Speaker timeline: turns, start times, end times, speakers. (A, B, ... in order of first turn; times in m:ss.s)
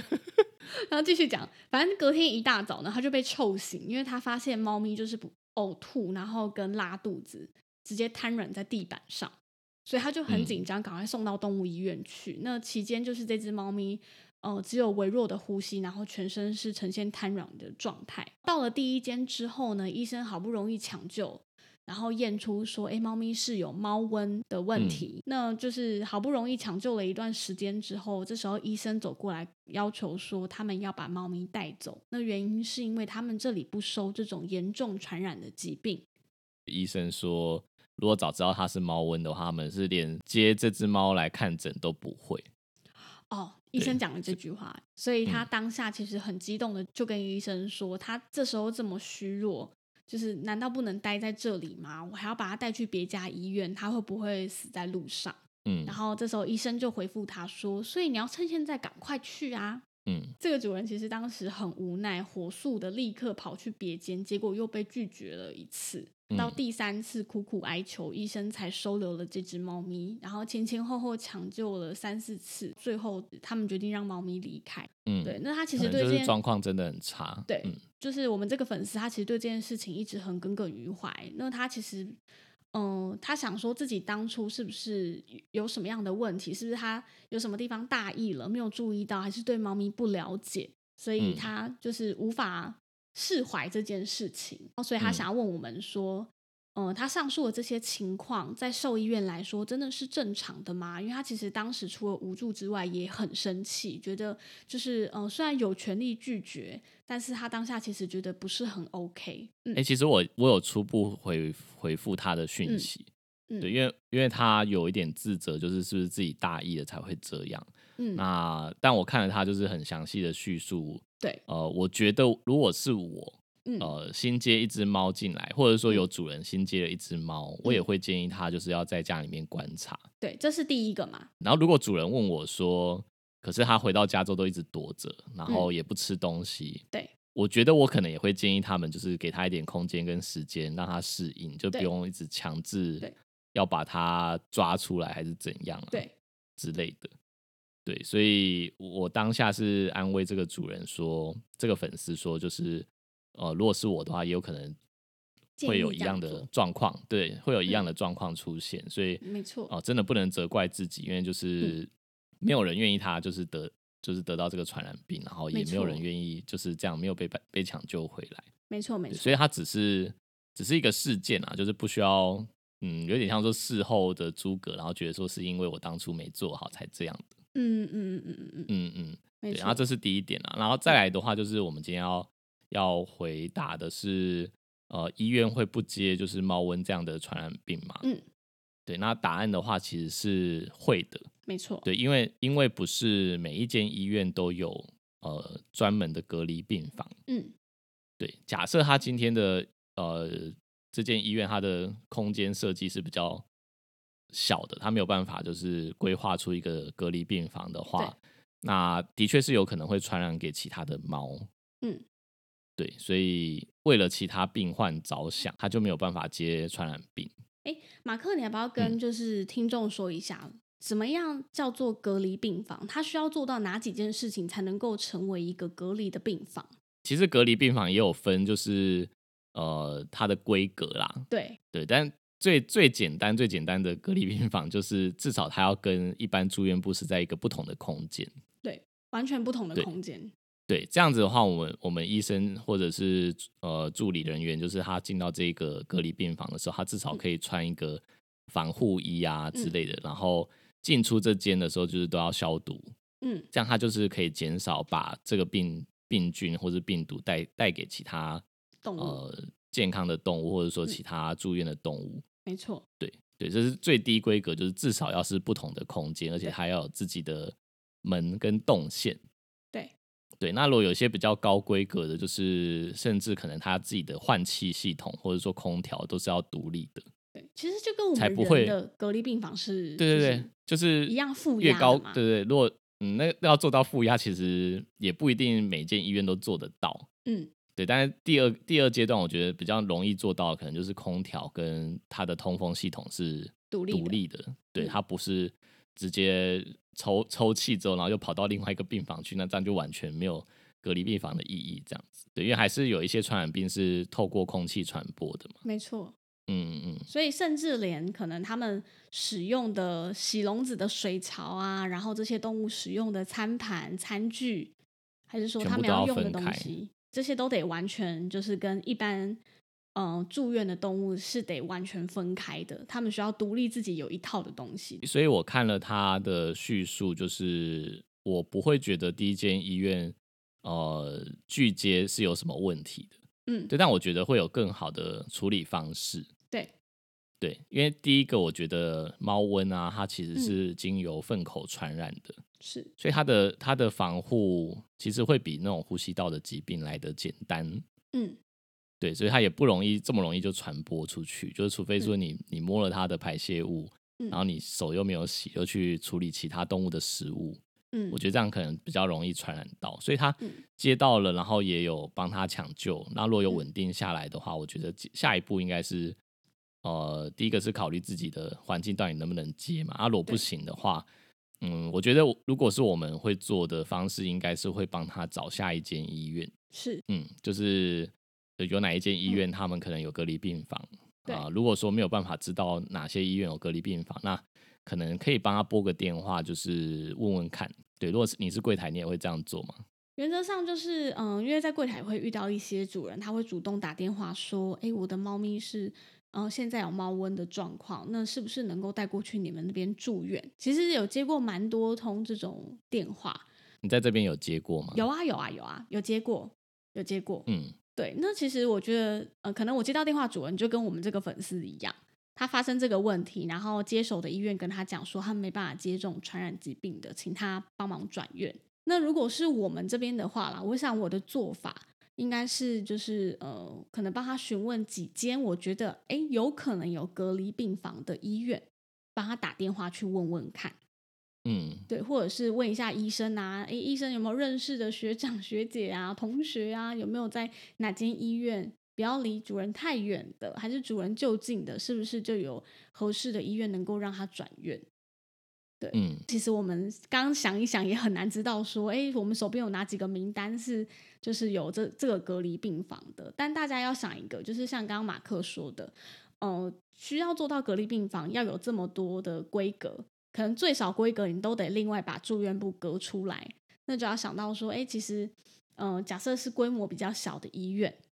0:00.7-0:36.0 A
0:10.3-0:10.6 B
0:24.7-0:25.0 B
0:36.7-0:42.4 B
0:43.3-0:59.8 A
0:55.6-0:56.0 B
1:00.0-1:00.3 B
1:00.4-1:16.3 A
1:06.3-1:06.6 B
1:15.0-1:17.8 B
1:17.5-1:22.2 A
1:22.7-1:49.8 A
1:31.2-1:31.5 B
1:49.7-1:53.1 B
1:53.6-2:10.0 B
1:58.0-1:58.2 A
2:03.6-2:03.9 A
2:10.2-2:11.3 A
2:11.4-2:16.8 B
2:17.3-2:26.0 B
2:26.6-2:27.1 B
2:27.8-2:34.8 B
2:35.6-2:36.5 A
2:35.6-2:41.9 B
2:39.2-2:39.7 A
2:42.4-2:48.4 B
2:45.5-2:46.0 A
2:48.7-2:49.3 A
2:49.1-2:57.3 B
2:57.5-2:58.7 A
2:58.7-3:08.0 B
2:59.4-2:59.8 A
3:08.9-3:11.3 B
3:11.5-3:11.9 A
3:11.8-3:17.1 B
3:17.3-3:17.5 A
3:18.2-3:23.4 B
3:24.3-3:31.5 B
3:32.8-3:37.3 B
3:37.6-3:46.7 A
3:47.0-3:58.3 B
3:51.3-3:51.6 A
3:58.6-4:00.3 A
4:00.7-4:12.9 B
4:13.2-4:13.5 A
4:13.5-4:18.4 B
4:18.8-4:19.2 A
4:19.0-4:22.2 B
4:22.4-4:22.8 A
4:23.0-4:29.2 B
4:30.4-4:37.0 B
4:37.3-4:40.5 A
4:38.2-4:38.8 B
4:40.0-4:47.1 B
4:41.0-4:42.2 A
4:47.2-4:47.5 A
4:47.8-5:05.6 B
4:53.7-4:54.2 A
5:05.6-5:06.1 A
5:06.5-5:07.1 B
5:07.1-5:14.7 A
5:15.3-5:19.4 A
5:15.6-5:16.7 B
5:19.9-5:25.0 A
5:25.0-5:33.2 B
5:33.5-5:33.7 A
5:33.7-5:36.3 B
5:37.4-5:42.4 B
5:42.6-5:42.9 A
5:43.0-5:47.8 B
5:48.1-5:48.4 A
5:49.0-5:57.6 B
5:57.9-5:58.2 A
5:58.1-6:06.2 B
6:06.8-6:11.1 B
6:11.6-6:16.5 B
6:16.7-6:17.0 A
6:17.1-6:29.8 B
6:30.2-6:43.5 A
6:43.8-6:45.0 B
6:44.9-7:10.8 A
6:47.5-6:47.7 B
7:11.4-7:11.9 B
7:11.9-7:24.8 A
7:25.8-7:48.0 A
7:25.9-7:26.2 B